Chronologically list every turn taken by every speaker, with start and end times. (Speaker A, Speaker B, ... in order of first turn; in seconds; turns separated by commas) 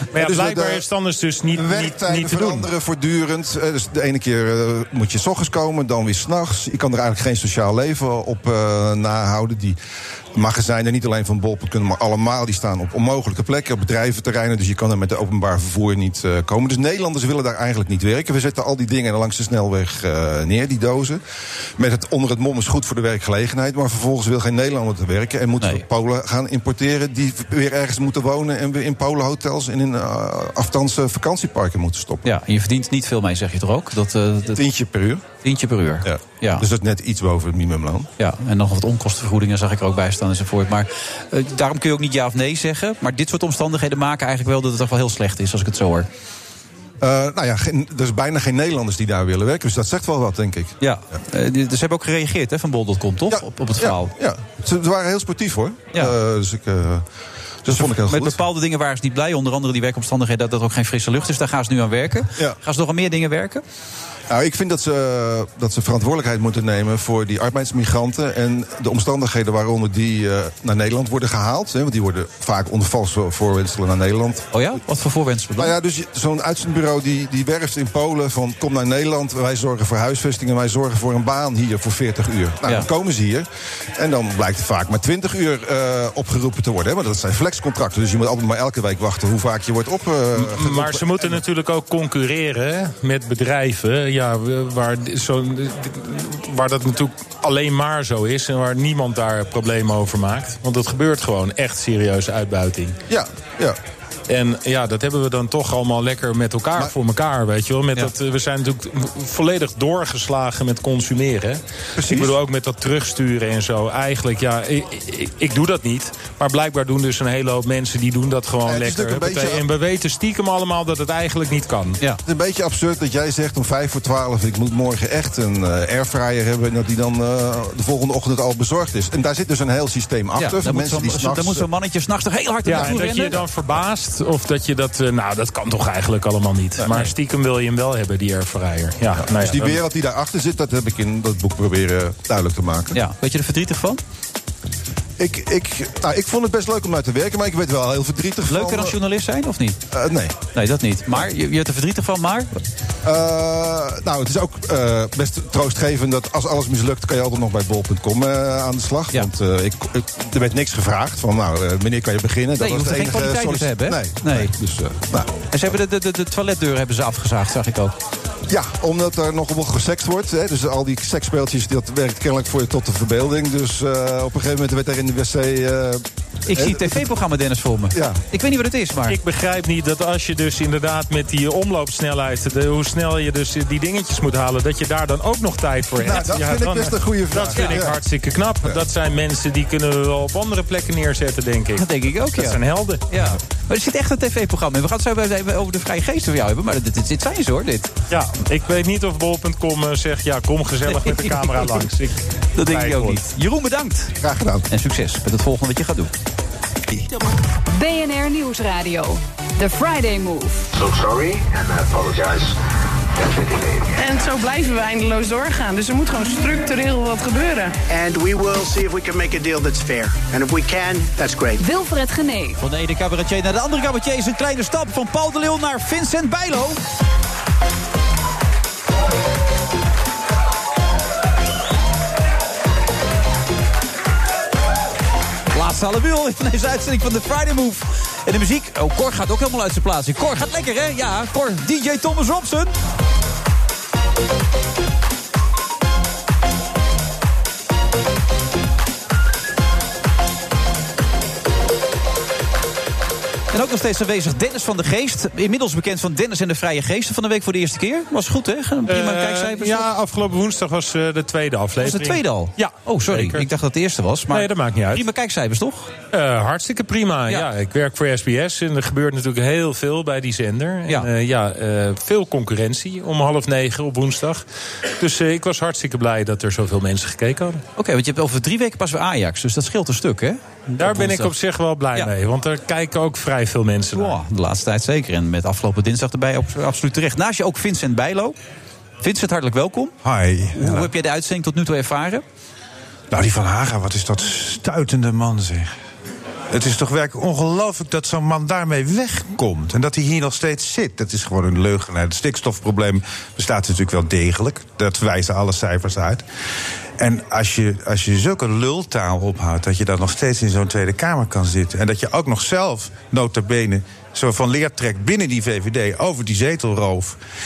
Speaker A: 0.1-2.7, Speaker B: 0.2-0.9, Speaker B: 1.5-9.8, Speaker B: 10.3-21.2, Speaker B: 21.8-32.3, Speaker C: 32.2-34.6, Speaker B: 34.5-35.2, Speaker C: 35.4-36.6, Speaker B: 36.0-38.1, Speaker C: 38.2-46.1, Speaker B: 47.0-50.8, Speaker C: 50.8-54.1, Speaker B: 53.3-57.0, Speaker B: 57.6-58.4, Speaker C: 57.7-63.6, Speaker B: 64.3-74.5, Speaker C: 74.5-75.7, Speaker B: 75.6-83.5, Speaker B: 84.0-91.4, Speaker A: 90.4-103.0, Speaker B: 103.1-103.8, Speaker A: 104.3-122.0, Speaker B: 112.0-112.4, Speaker B: 118.7-119.6, Speaker B: 122.2-131.7, Speaker C: 130.4-133.4, Speaker A: 132.7-139.8, Speaker B: 132.7-133.8, Speaker B: 136.8-137.1, Speaker B: 139.2-143.0, Speaker C: 142.9-144.0, Speaker B: 145.2-149.0, Speaker C: 148.5-149.8, Speaker B: 149.9-150.4, Speaker C: 150.5-152.5, Speaker B: 153.0-165.7, Speaker C: 162.6-164.5, Speaker C: 165.5-167.9, Speaker B: 168.5-177.1, Speaker C: 176.5-179.2, Speaker B: 177.9-178.2, Speaker A: 179.1-193.1, Speaker B: 185.9-188.0, Speaker C: 191.8-197.9, Speaker A: 198.1-203.2, Speaker C: 200.9-201.6, Speaker C: 202.6-204.1, Speaker B: 204.2-204.6, Speaker C: 204.7-206.1, Speaker D: 207.7-210.7, Speaker E: 210.7-212.6, Speaker E: 213.2-214.0, Speaker F: 213.9-217.8, Speaker G: 217.9-221.6, Speaker D: 221.6-222.6, Speaker C: 222.6-226.8, Speaker C: 235.5-242.7, Speaker C: 253.5-259.9, Speaker A: 258.9-263.5, Speaker C: 261.8-265.9, Speaker A: 264.3-265.1, Speaker A: 266.1-274.4, Speaker A: 275.0-277.6, Speaker C: 277.8-281.3, Speaker A: 280.8-284.2, Speaker C: 283.9-288.4, Speaker C: 289.0-289.9, Speaker H: 290.0-290.9, Speaker C: 290.6-292.2, Speaker H: 293.1-295.7, Speaker H: 296.5-306.2, Speaker H: 307.0-317.2